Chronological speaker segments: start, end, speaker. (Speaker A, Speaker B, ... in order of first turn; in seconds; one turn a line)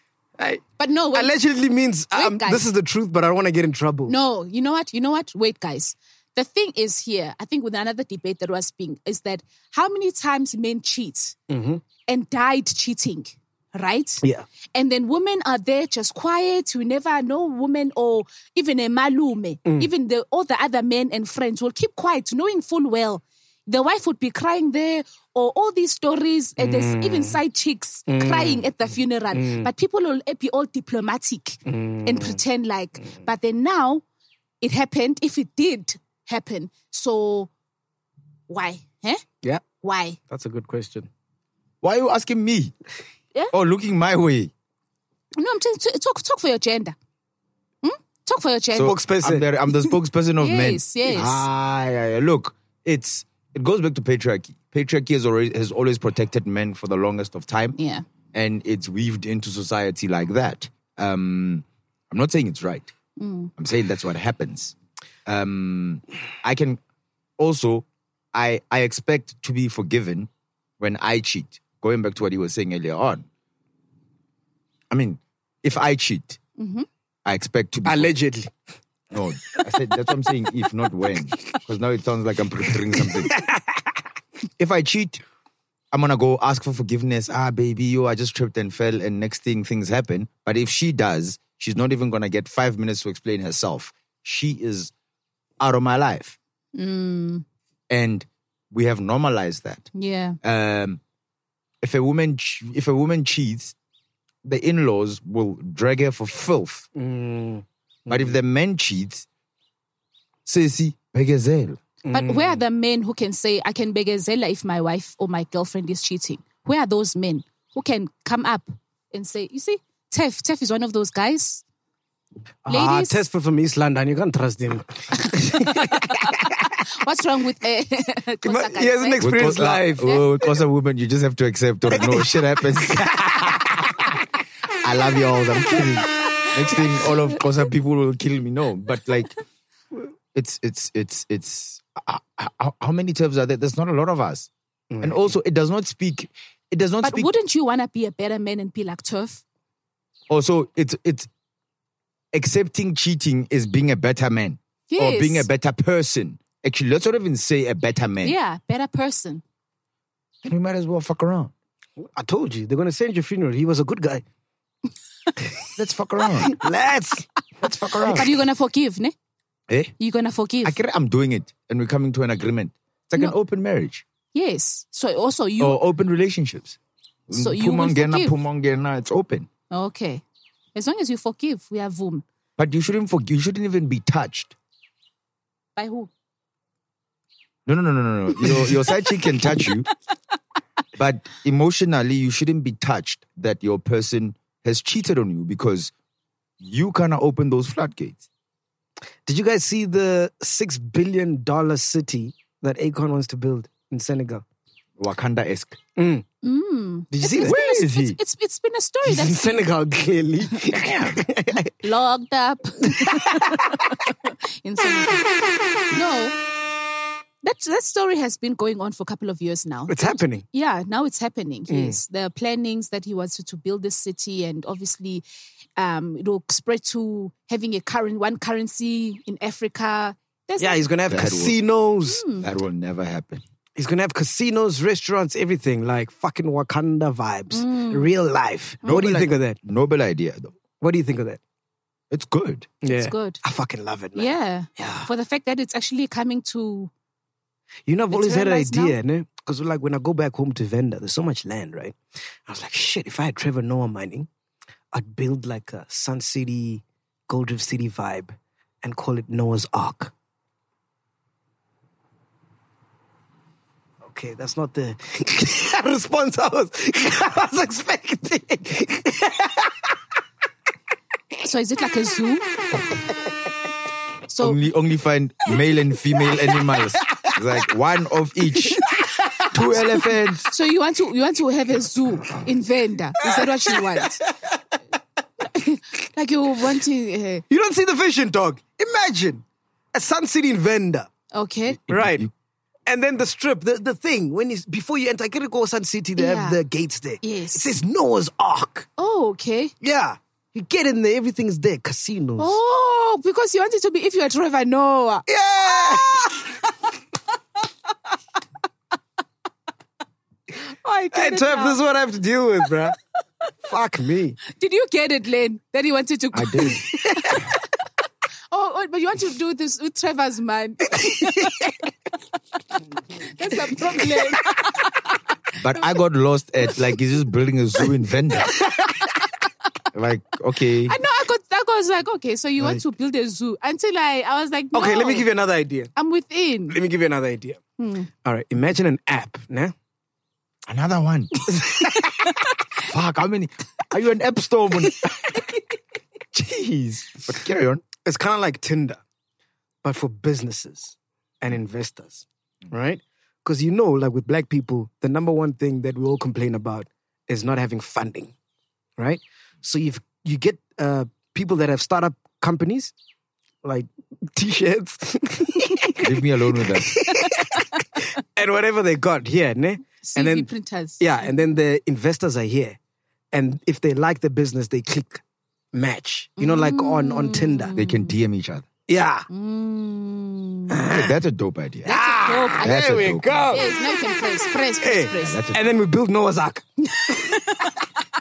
Speaker A: 0.4-4.1
Speaker B: 0.8-1.3
Speaker B: 2.1-2.6
Speaker B: 4.1-11.4
Speaker A: 11.5-11.8
Speaker B: 12.1-34.0
Speaker A: 26.6-27.4
Speaker A: 28.1-28.7
Speaker A: 29.3-29.7
Speaker A: 31.6-32.4
Speaker B: 34.6-37.5
Speaker B: 38.5-39.2
Speaker B: 39.8-40.2
Speaker A: 40.3-41.1
Speaker C: 41.8-42.7
Speaker C: 43.5-44.5
Speaker B: 45.4-46.9
Speaker B: 47.8-49.0
Speaker C: 48.7-57.8
Speaker A: 48.8-49.5
Speaker B: 50.4-51.4
Speaker B: 57.8-58.1
Speaker C: 58.3-62.9
Speaker B: 63.2-63.5
Speaker C: 63.6-64.8
Speaker C: 65.2-66.8
Speaker C: 67.4-73.2
Speaker C: 74.9-76.4
Speaker B: 76.6-76.9
Speaker C: 77.2-78.1
Speaker A: 77.8-78.5
Speaker C: 79.1-83.4
Speaker A: 83.3-83.6
Speaker C: 84.6-85.2
Speaker C: 85.9-94.9
Speaker C: 95.6-96.4
Speaker B: 96.8-97.4
Speaker C: 97.9-99.9
Speaker B: 99.9-100.4
Speaker C: 100.4-101.0
Speaker C: 101.8-103.8
Speaker C: 104.4-106.9
Speaker A: 107.0-108.3
Speaker C: 108.1-109.2
Speaker C: 110.5-111.8
Speaker A: 112.0-112.6
Speaker B: 112.1-121.6
Speaker A: 122.7-126.4
Speaker B: 122.7-123.2
Speaker B: 125.5-130.2
Speaker A: 128.4-130.3
Speaker C: 129.2-133.9
Speaker A: 133.0-133.9
Speaker C: 134.8-139.4
Speaker C: 140.3-144.5
Speaker A: 144.9-145.4
Speaker C: 145.0-147.3
Speaker B: 147.0-149.4
Speaker C: 150.3-151.3
Speaker C: 152.3-158.4
Speaker B: 154.9-155.5
Speaker B: 158.2-159.4
Speaker C: 160.4-161.5
Speaker A: 162.0-164.2
Speaker C: 165.8-166.6
Speaker A: 166.5-167.3
Speaker C: 167.6-168.3
Speaker B: 168.1-169.1
Speaker C: 169.7-169.9
Speaker B: 170.0-170.8
Speaker C: 170.6-174.0
Speaker B: 174.3-175.8
Speaker C: 175.6-176.8
Speaker C: 177.3-179.5
Speaker B: 177.3-178.3
Speaker B: 179.7-180.2
Speaker B: 180.8-182.2
Speaker C: 182.6-184.5
Speaker B: 185.8-186.1
Speaker C: 187.7-189.9
Speaker C: 191.0-195.9
Speaker C: 196.6-198.2
Speaker A: 199.2-204.4
Speaker C: 205.0-205.8
Speaker A: 206.0-206.2
Speaker B: 206.4-209.6
Speaker A: 207.1-207.5
Speaker C: 207.4-208.2
Speaker A: 209.0-211.8
Speaker C: 210.7-211.2
Speaker B: 211.8-215.2
Speaker A: 213.0-213.8
Speaker B: 215.9-216.4
Speaker B: 217.4-225.2
Speaker A: 219.9-220.4
Speaker A: 221.7-222.0
Speaker B: 225.8-230.9
Speaker A: 230.6-232.2
Speaker C: 231.1-231.6
Speaker B: 232.1-232.5
Speaker C: 232.4-233.4
Speaker A: 233.8-239.6
Speaker B: 237.5-238.1
Speaker C: 238.8-240.5
Speaker A: 240.8-241.4
Speaker C: 242.1-242.7
Speaker A: 242.8-245.1
Speaker B: 242.9-243.4
Speaker B: 244.2-246.9
Speaker A: 247.9-254.3
Speaker B: 248.1-249.0
Speaker A: 254.9-260.1
Speaker A: 264.0-269.9
Speaker B: 271.4-272.5
Speaker B: 274.3-274.6
Speaker C: 274.4-278.8
Speaker A: 278.9-280.0
Speaker C: 279.5-280.5
Speaker B: 280.5-284.2
Speaker A: 283.3-284.3
Speaker B: 285.4-287.4
Speaker A: 287.5-289.4
Speaker A: 289.9-291.1
Speaker B: 291.3-291.8
Speaker C: 291.8-292.3
Speaker A: 291.9-292.2
Speaker A: 292.9-298.9
Speaker B: 296.2-296.6
Speaker B: 297.2-297.7
Speaker B: 299.0-299.7
Speaker A: 299.8-302.6
Speaker B: 302.4-306.5
Speaker A: 305.3-306.5
Speaker B: 310.6-311.8
Speaker A: 311.1-313.0
Speaker A: 313.6-314.4
Speaker B: 314.5-317.6
Speaker C: 316.3-316.8
Speaker B: 318.5-321.8
Speaker A: 321.0-321.6
Speaker B: 323.2-325.1
Speaker C: 325.6-328.6
Speaker C: 329.9-330.9
Speaker B: 330.9-335.3
Speaker A: 334.7-335.9
Speaker B: 336.0-336.8
Speaker A: 336.7-337.6
Speaker B: 337.8-338.1
Speaker A: 338.2-339.7
Speaker C: 340.7-341.5
Speaker A: 341.5-342.1
Speaker C: 342.8-345.4
Speaker C: 346.3-347.8
Speaker A: 348.0-349.0
Speaker A: 349.8-358.3
Speaker A: 359.0-362.9
Speaker A: 363.6-366.1
Speaker C: 366.0-366.9
Speaker A: 366.9-372.8
Speaker B: 367.1-367.6
Speaker B: 370.0-371.0
Speaker A: 373.3-375.2
Speaker A: 375.7-377.8
Speaker B: 376.4-378.1
Speaker C: 377.8-378.7
Speaker A: 378.9-379.3
Speaker B: 379.3-380.8
Speaker A: 380.7-381.2
Speaker C: 380.9-381.9
Speaker B: 381.9-382.8
Speaker A: 381.9-383.7
Speaker C: 382.6-383.6
Speaker B: 383.5-385.4
Speaker A: 384.8-386.6
Speaker C: 385.2-385.6
Speaker B: 386.9-387.9